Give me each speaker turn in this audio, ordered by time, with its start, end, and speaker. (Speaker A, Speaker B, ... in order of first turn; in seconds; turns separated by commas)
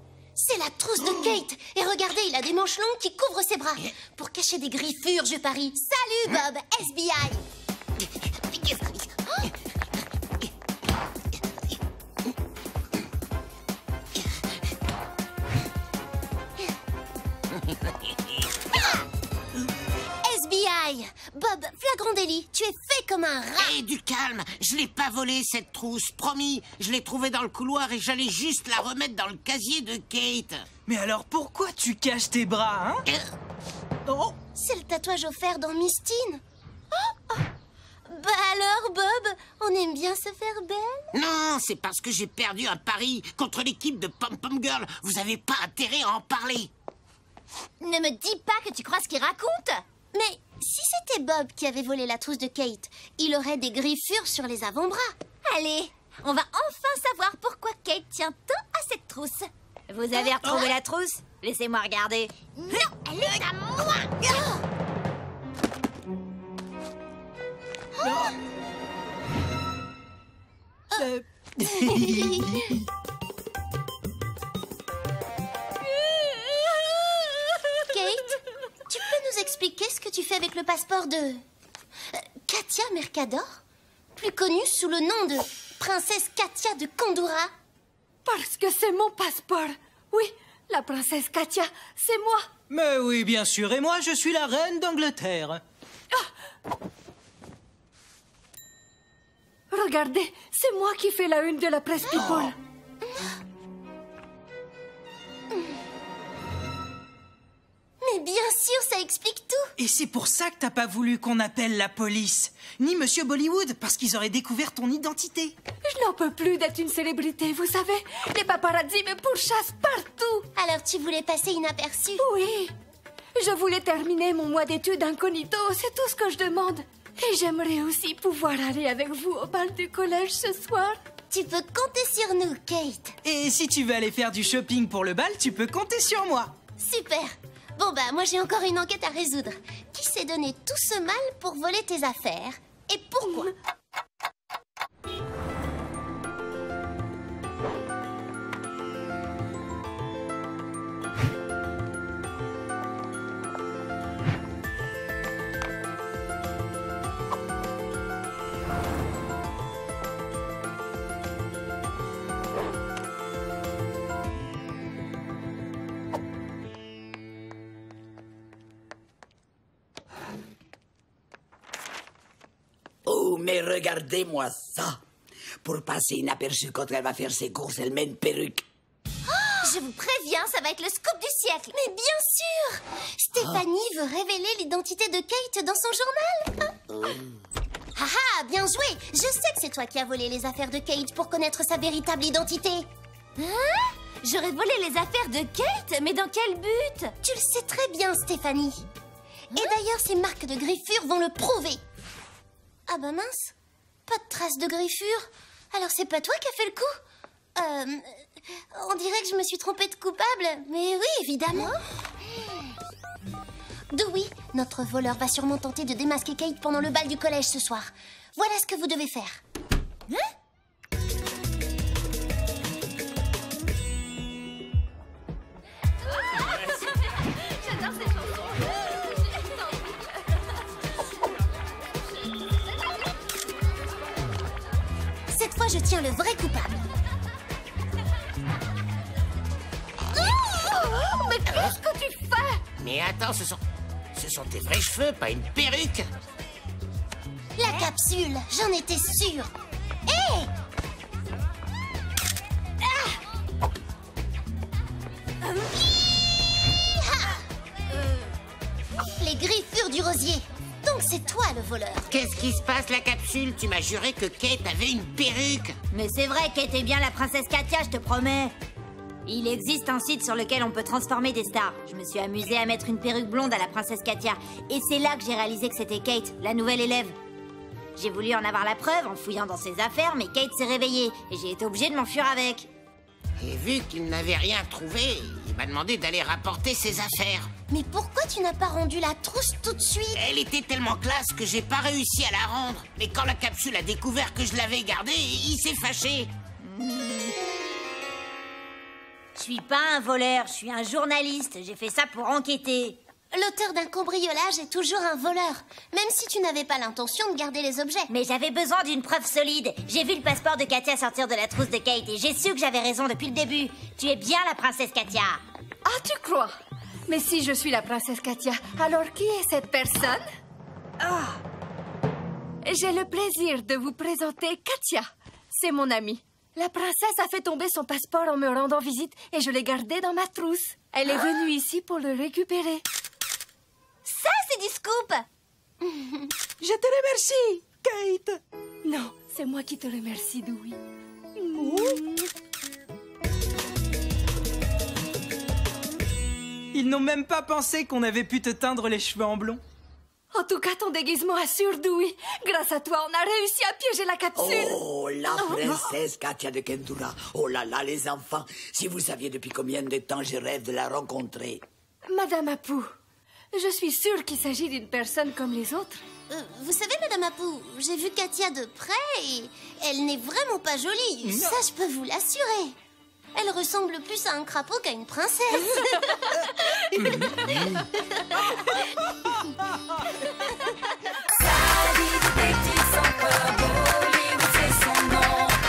Speaker A: 0.3-7.4, Speaker B: 6.0-6.2, Speaker A: 20.2-23.7, Speaker C: 23.6-30.6, Speaker D: 30.9-33.0, Speaker C: 33.1-33.3, Speaker D: 34.0-34.4, Speaker A: 34.5-36.4, Speaker A: 38.1-41.0, Speaker C: 41.1-46.7, Speaker B: 47.8-49.8, Speaker A: 50.1-55.1, Speaker B: 55.5-59.5, Speaker E: 59.9-62.8, Speaker B: 60.3-60.7, Speaker B: 62.5-64.4, Speaker D: 68.0-68.3, Speaker D: 71.0-72.7, Speaker A: 71.6-72.5, Speaker F: 76.0-77.6, Speaker A: 77.9-81.4, Speaker A: 82.1-83.6, Speaker A: 84.2-87.5, Speaker F: 88.2-92.5, Speaker D: 92.7-95.6, Speaker F: 99.7-102.5, Speaker A: 102.1-102.4, Speaker A: 103.0-103.3, Speaker A: 108.0-109.7, Speaker D: 109.8-115.5, Speaker F: 115.8-120.5, Speaker A: 120.5-122.2, Speaker F: 122.2-122.7, Speaker F: 123.4-131.0, Speaker A: 131.3-133.1, Speaker D: 133.2-136.5, Speaker A: 136.8-143.5, Speaker G: 173.0-175.0, Speaker G: 175.6-178.6, Speaker A: 179.3-179.7, Speaker B: 179.6-181.7, Speaker A: 181.7-186.8, Speaker A: 187.9-192.9, Speaker B: 193.4-197.1, Speaker A: 197.2-198.8, Speaker A: 199.5-201.8, Speaker A: 202.9-203.5, Speaker A: 204.1-207.0, Speaker A: 207.6-211.7, Speaker A: 212.3-212.7, Speaker A: 213.9-219.4, Speaker F: 226.3-226.6, Speaker F: 227.3-229.8, Speaker A: 235.3-236.7, Speaker F: 240.1-242.6, Speaker C: 242.8-243.6, Speaker C: 244.1-246.1, Speaker A: 247.6-249.5, Speaker A: 250.1-250.4, Speaker A: 257.0-257.4, Speaker A: 259.0-262.1, Speaker C: 262.1-265.8, Speaker E: 265.9-268.5, Speaker E: 269.2-277.1, Speaker E: 277.9-282.7, Speaker C: 283.4-287.5, Speaker A: 287.7-290.2, Speaker C: 290.1-296.3, Speaker E: 296.6-297.3, Speaker E: 299.4-303.0, Speaker A: 303.3-308.1, Speaker E: 308.1-315.4, Speaker F: 315.8-316.5, Speaker F: 317.1-320.2, Speaker F: 321.0-321.3, Speaker F: 322.6-332.8, Speaker F: 334.1-334.4, Speaker B: 334.3-335.2, Speaker A: 335.8-336.3, Speaker F: 336.6-340.8, Speaker F: 341.4-342.3, Speaker D: 346.7-349.6, Speaker F: 350.3-354.8, Speaker G: 354.3-361.6, Speaker F: 355.4-355.8, Speaker F: 362.1-362.9, Speaker F: 363.5-366.0, Speaker A: 366.3-372.7, Speaker D: 371.3-371.5, Speaker A: 373.3-376.1, Speaker D: 376.3-377.5, Speaker D: 378.9-379.5, Speaker B: 382.4-384.3